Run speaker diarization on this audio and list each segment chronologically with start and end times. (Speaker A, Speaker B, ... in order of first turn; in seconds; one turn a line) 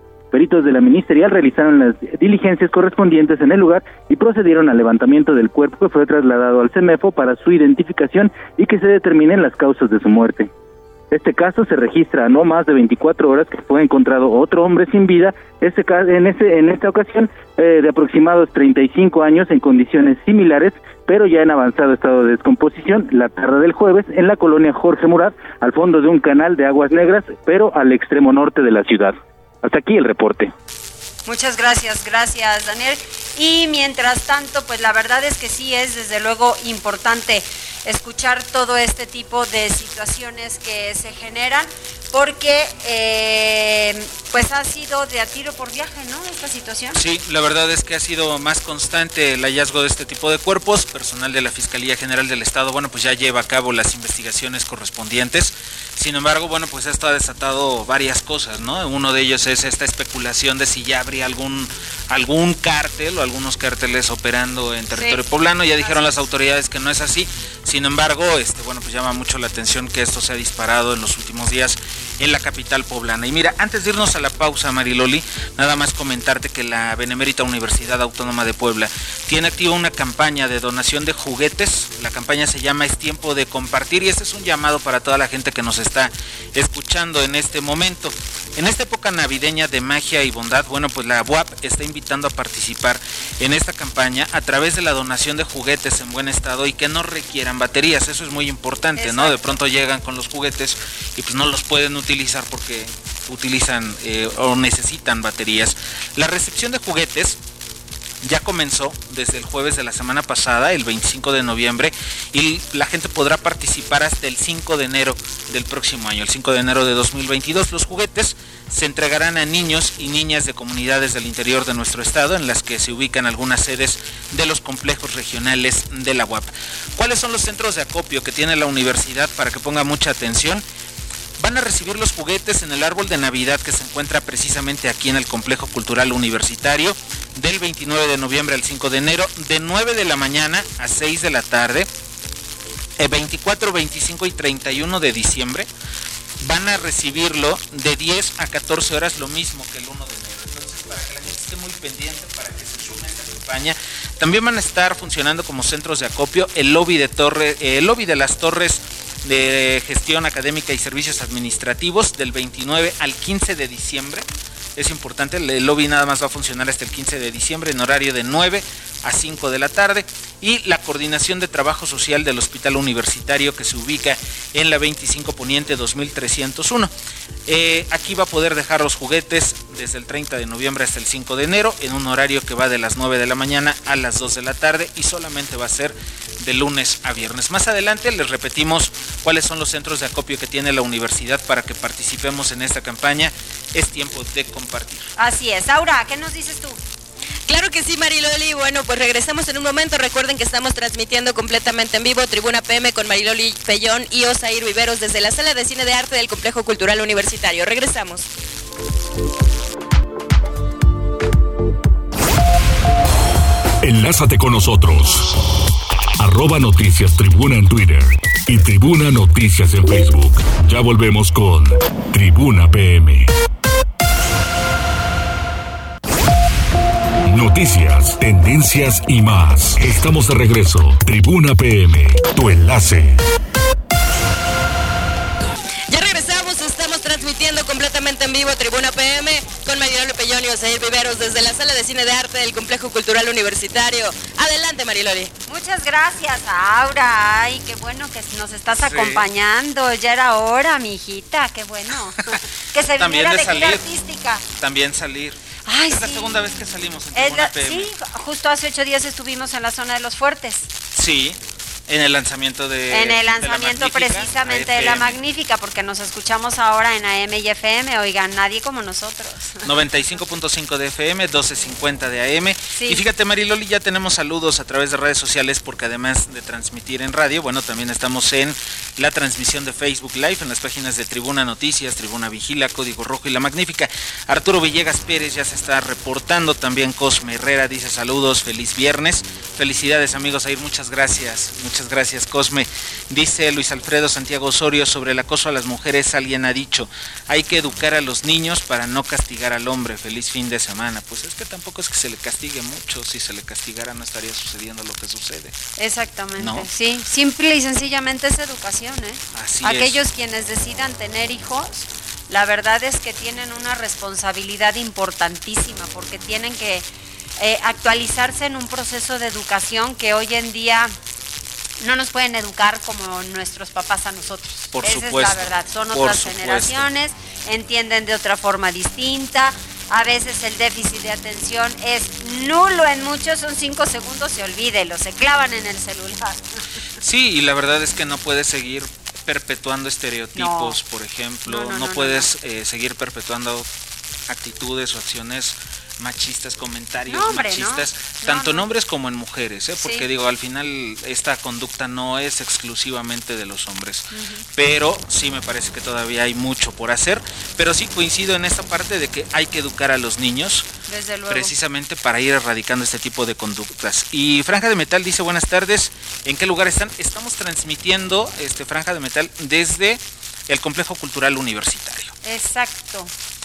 Speaker A: 0.3-10.5
Speaker A: 11.1-30.5
Speaker B: 31.2-47.0
Speaker C: 46.9-107.4
Speaker B: 64.9-65.2
Speaker B: 65.8-66.1
Speaker B: 99.0-99.5
Speaker C: 108.2-130.6
Speaker C: 131.4-141.9
Speaker C: 143.0-145.7
Speaker C: 146.4-176.9
Speaker C: 177.5-195.1
Speaker B: 195.2-196.8
Speaker D: 197.5-208.3
Speaker E: 213.8-215.4
Speaker E: 216.2-223.3
Speaker E: 227.3-233.2
Speaker D: 235.9-245.3
Speaker B: 245.5-254.4
Speaker C: 248.8-249.2
Speaker C: 253.0-253.8
Speaker C: 254.6-257.9
Speaker B: 255.7-256.6
Speaker B: 257.1-260.7
Speaker C: 260.9-265.2
Speaker B: 262.9-269.7
Speaker C: 269.6-305.6
Speaker B: 272.7-273.0
Speaker B: 305.8-316.9
Speaker C: 306.4-306.7
Speaker C: 309.3-310.0
Speaker B: 317.4-320.9
Speaker B: 321.8-336.4
Speaker C: 324.7-326.9
Speaker C: 337.0-343.7
Speaker B: 340.4-340.8
Speaker B: 341.5-342.3
Speaker C: 344.3-360.7
Speaker B: 347.1-348.7
Speaker B: 354.1-354.4
Speaker B: 360.9-361.5
Speaker C: 361.3-372.1
Speaker B: 372.2-373.1